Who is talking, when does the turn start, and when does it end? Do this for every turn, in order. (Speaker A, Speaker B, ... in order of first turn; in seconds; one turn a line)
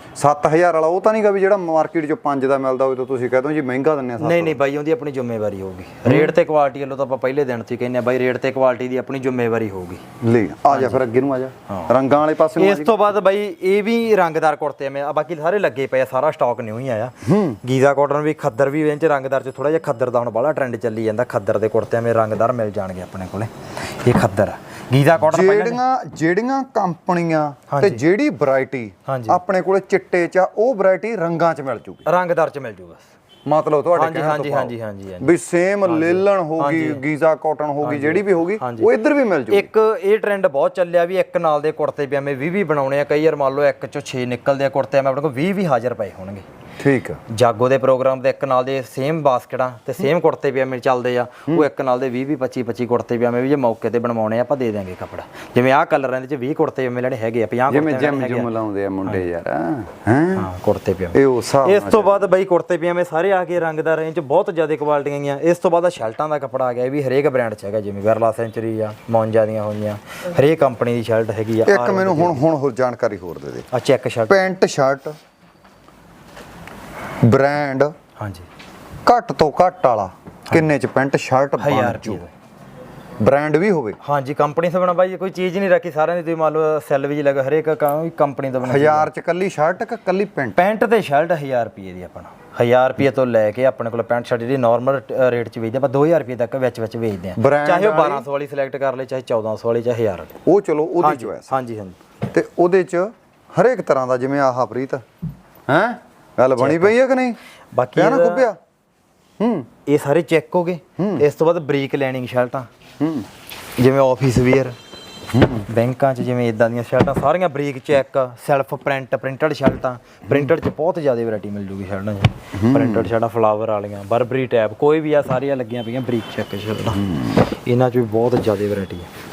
Speaker A: 0.2-4.6
Speaker B: 4.2-10.0
Speaker A: 6.0-6.3
Speaker A: 10.2-12.9
Speaker B: 10.7-11.0
Speaker B: 11.7-11.9
Speaker B: 12.6-25.8
Speaker A: 17.2-17.6
Speaker A: 25.2-32.0
Speaker B: 27.7-28.0
Speaker B: 29.1-29.4
Speaker B: 32.0-33.0
Speaker A: 33.5-39.7
Speaker B: 33.9-35.3
Speaker B: 35.8-37.0
Speaker B: 37.8-38.9
Speaker B: 39.5-46.4
Speaker A: 46.8-47.2
Speaker B: 47.3-58.5
Speaker A: 57.7-60.5
Speaker B: 60.4-72.4
Speaker A: 61.1-62.3
Speaker A: 71.7-73.7
Speaker B: 73.7-74.4
Speaker A: 74.3-75.2
Speaker A: 77.2-77.9
Speaker B: 78.2-78.5
Speaker A: 79.0-82.2
Speaker B: 81.6-82.3
Speaker A: 83.2-84.0
Speaker B: 84.0-89.1
Speaker A: 88.6-90.6
Speaker B: 90.5-100.4
Speaker A: 97.4-98.2
Speaker A: 100.4-101.5
Speaker B: 101.0-102.0
Speaker A: 102.3-105.0
Speaker A: 105.7-107.4
Speaker B: 106.5-106.9
Speaker B: 107.7-108.5
Speaker A: 108.0-108.6
Speaker A: 109.4-109.7
Speaker B: 109.8-112.7
Speaker A: 111.0-111.2
Speaker A: 113.0-113.3
Speaker B: 113.8-114.8
Speaker A: 115.3-115.6
Speaker B: 115.7-129.1
Speaker A: 122.5-123.1
Speaker A: 127.0-127.4